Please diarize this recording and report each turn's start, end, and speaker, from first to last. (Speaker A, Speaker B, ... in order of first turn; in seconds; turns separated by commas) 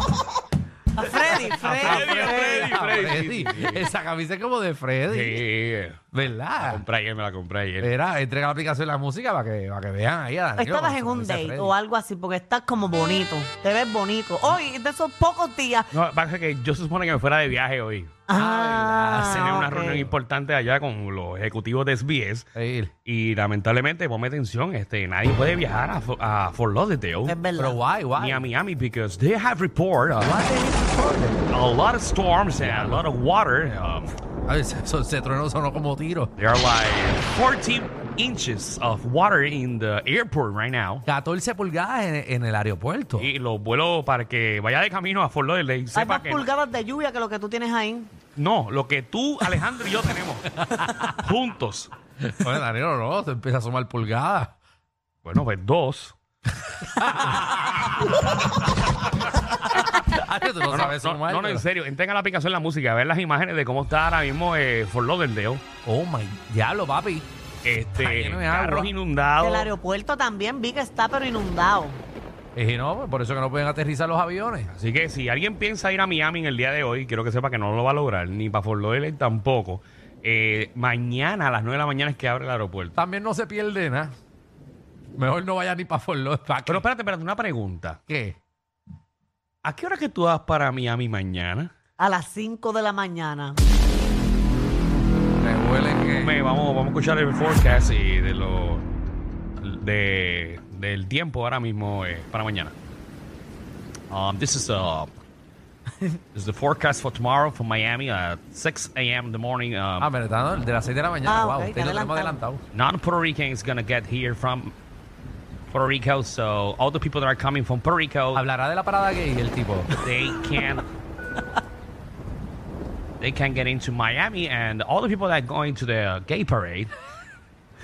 Speaker A: 0.9-2.7, Speaker B: 1.3-5.4, Speaker C: 1.5-3.9, Speaker C: 5.1-6.0, Speaker B: 6.1-6.8, Speaker C: 6.6-7.9, Speaker B: 7.8-11.7, Speaker A: 10.6-15.9, Speaker C: 15.9-18.2, Speaker A: 18.3-20.1, Speaker B: 18.3-20.1, Speaker C: 19.1-22.5, Speaker B: 22.6-22.9, Speaker C: 23.1-27.4, Speaker A: 27.3-27.8, Speaker B: 27.6-28.5, Speaker C: 28.2-30.4, Speaker B: 30.2-31.6, Speaker C: 31.5-34.1, Speaker B: 32.6-33.0, Speaker B: 34.5-36.3, Speaker C: 36.4-41.1, Speaker B: 41.1-43.3, Speaker C: 43.2-46.5, Speaker A: 46.0-48.1, Speaker C: 48.4-51.9, Speaker B: 50.5-51.1, Speaker B: 52.2-54.5, Speaker C: 55.2-56.1, Speaker B: 56.7-58.3, Speaker B: 59.7-61.7, Speaker C: 60.7-65.6, Speaker B: 65.8-67.3, Speaker C: 67.6-69.7, Speaker B: 67.9-68.9, Speaker A: 69.4-72.0, Speaker B: 72.6-74.7, Speaker C: 74.7-83.0, Speaker B: 83.0-84.2, Speaker B: 85.2-86.8, Speaker C: 86.7-88.0, Speaker B: 88.1-88.4, Speaker C: 89.6-91.7, Speaker A: 92.0-93.6, Speaker B: 95.4-96.4, Speaker C: 96.2-98.9, Speaker C: 99.6-102.7, Speaker C: 104.1-105.2, Speaker C: 106.3-110.1, Speaker B: 110.0-112.6, Speaker A: 111.3-112.4, Speaker C: 112.7-114.8, Speaker C: 115.7-118.4, Speaker B: 118.3-119.9, Speaker C: 120.0-120.9, Speaker C: 123.2-126.9